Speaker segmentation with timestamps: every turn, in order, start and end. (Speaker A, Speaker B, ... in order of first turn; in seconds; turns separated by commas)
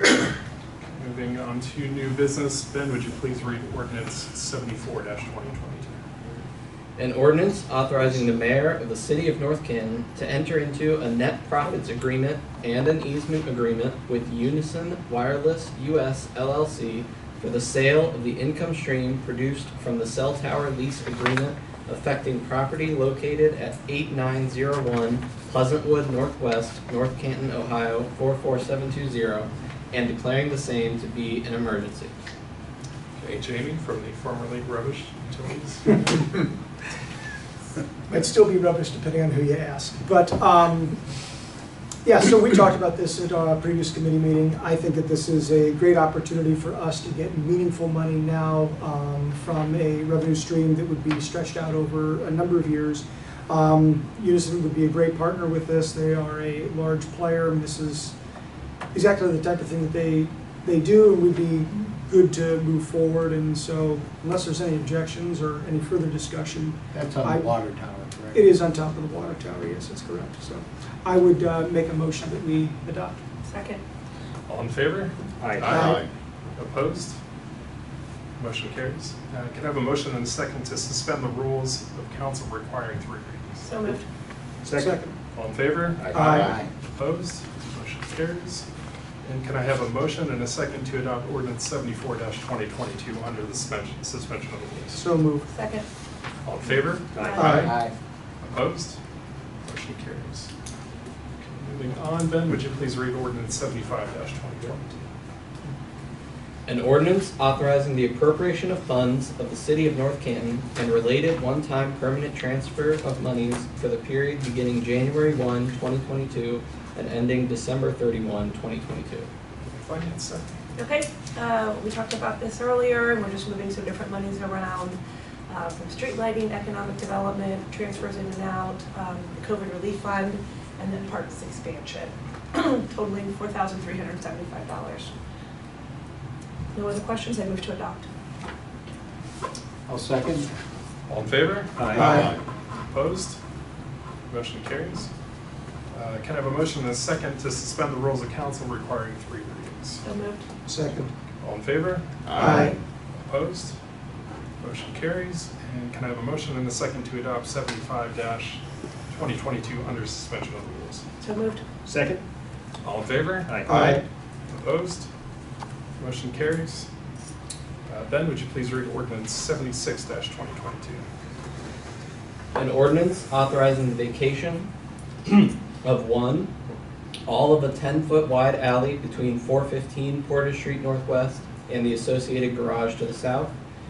Speaker A: 0.9-6.4, Speaker B: 7.0-32.1, Speaker A: 33.2-36.5, Speaker C: 38.1-41.0, Speaker C: 42.0-58.1, Speaker C: 58.9-67.5, Speaker D: 66.9-68.4, Speaker C: 68.3-73.2, Speaker E: 73.4-73.8, Speaker A: 74.5-76.0, Speaker F: 75.4-75.8, Speaker C: 75.7-76.0, Speaker A: 76.5-77.2, Speaker A: 78.4-83.6, Speaker E: 83.6-84.0, Speaker F: 84.6-85.0, Speaker C: 84.7-85.2, Speaker A: 85.3-86.1, Speaker F: 85.9-86.2, Speaker C: 86.1-86.7, Speaker D: 86.1-86.6, Speaker A: 86.8-88.7, Speaker A: 89.2-95.0, Speaker C: 94.9-95.5, Speaker E: 95.5-95.8, Speaker A: 96.4-97.7, Speaker F: 97.1-97.6, Speaker E: 97.2-97.6, Speaker D: 97.4-97.8, Speaker A: 98.4-99.0, Speaker A: 99.6-100.5, Speaker A: 101.4-105.1, Speaker B: 106.7-119.3, Speaker A: 119.7-120.5, Speaker E: 120.8-135.1, Speaker E: 136.7-138.0, Speaker D: 139.9-140.5, Speaker A: 141.1-142.3, Speaker F: 141.8-142.3, Speaker D: 142.0-142.3, Speaker A: 142.9-143.4, Speaker A: 144.3-145.1, Speaker A: 145.9-150.0, Speaker E: 150.0-150.4, Speaker C: 150.6-151.1, Speaker A: 151.4-152.6, Speaker C: 152.4-152.8, Speaker A: 153.2-153.8, Speaker A: 154.6-161.1, Speaker E: 161.2-161.6, Speaker F: 161.8-162.2, Speaker A: 162.8-163.9, Speaker F: 163.4-163.8, Speaker C: 163.7-164.0, Speaker A: 164.5-165.1, Speaker A: 166.0-166.9, Speaker A: 167.8-171.1, Speaker B: 172.5-174.7, Speaker B: 175.2-176.5, Speaker B: 177.2-183.5